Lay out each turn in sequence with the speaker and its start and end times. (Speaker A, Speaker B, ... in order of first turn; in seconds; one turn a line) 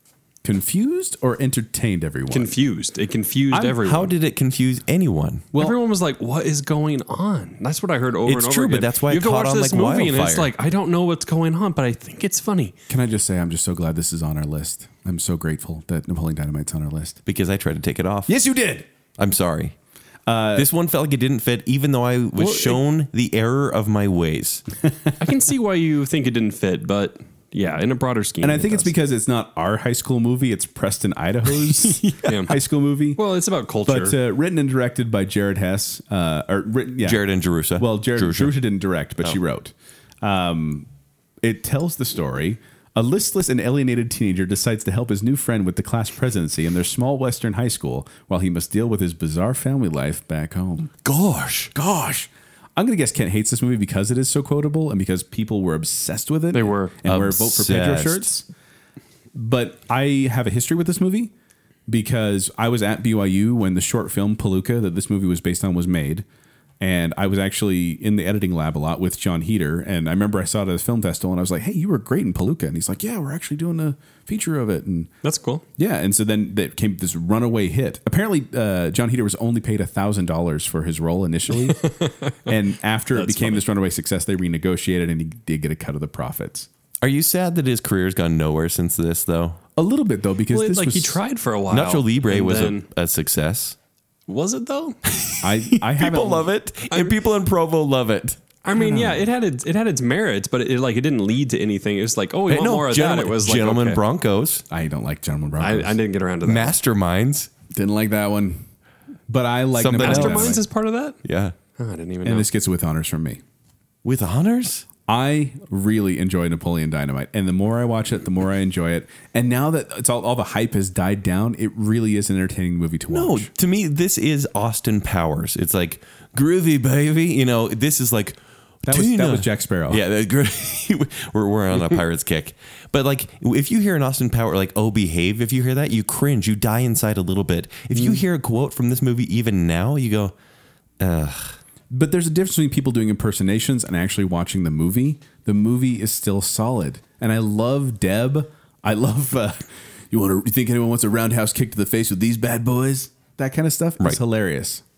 Speaker A: 0.4-2.5
Speaker B: 2.3-4.1
Speaker A: 3.5-3.8
Speaker C: 3.8-5.4
Speaker A: 5.5-5.8
Speaker B: 5.5-12.7
Speaker C: 8.2-10.5
Speaker A: 12.9-17.2
Speaker C: 17.2-18.4
Speaker A: 18.3-18.9
Speaker C: 19.2-19.7
Speaker A: 20.3-20.7
Speaker C: 20.6-24.6
Speaker B: 22.4-22.8
Speaker B: 25.2-28.9
Speaker A: 28.4-33.2
Speaker B: 32.0-32.6
Speaker B: 33.1-34.2
Speaker A: 33.8-40.9
Speaker C: 37.0-38.6
Speaker A: 41.4-50.9
Speaker C: 51.0-51.7
Speaker A: 51.7-58.5
Speaker B: 56.5-57.0
Speaker C: 57.0-58.3
Speaker A: 59.3-61.3
Speaker A: 61.9-66.2
Speaker A: 66.8-75.1
Speaker B: 75.2-75.6
Speaker A: 75.8-81.9
Speaker B: 81.8-82.4
Speaker A: 82.5-86.7
Speaker B: 83.2-83.6
Speaker C: 87.0-89.6
Speaker A: 89.8-91.2
Speaker B: 90.5-92.9
Speaker C: 91.7-93.8
Speaker B: 94.3-95.0
Speaker C: 95.2-98.4
Speaker A: 95.4-96.5
Speaker B: 96.9-97.2
Speaker B: 98.6-104.0
Speaker A: 98.8-99.1
Speaker C: 102.5-104.6
Speaker A: 104.7-106.0
Speaker B: 105.6-106.8
Speaker C: 106.4-107.5
Speaker A: 107.7-108.7
Speaker A: 109.3-110.6
Speaker C: 109.8-110.6
Speaker B: 110.0-111.2
Speaker C: 111.2-111.5
Speaker B: 111.8-112.5
Speaker A: 112.2-113.4
Speaker C: 114.0-114.9
Speaker A: 115.1-123.5
Speaker C: 123.1-140.3
Speaker A: 128.8-130.0
Speaker C: 141.0-141.6
Speaker A: 141.9-154.8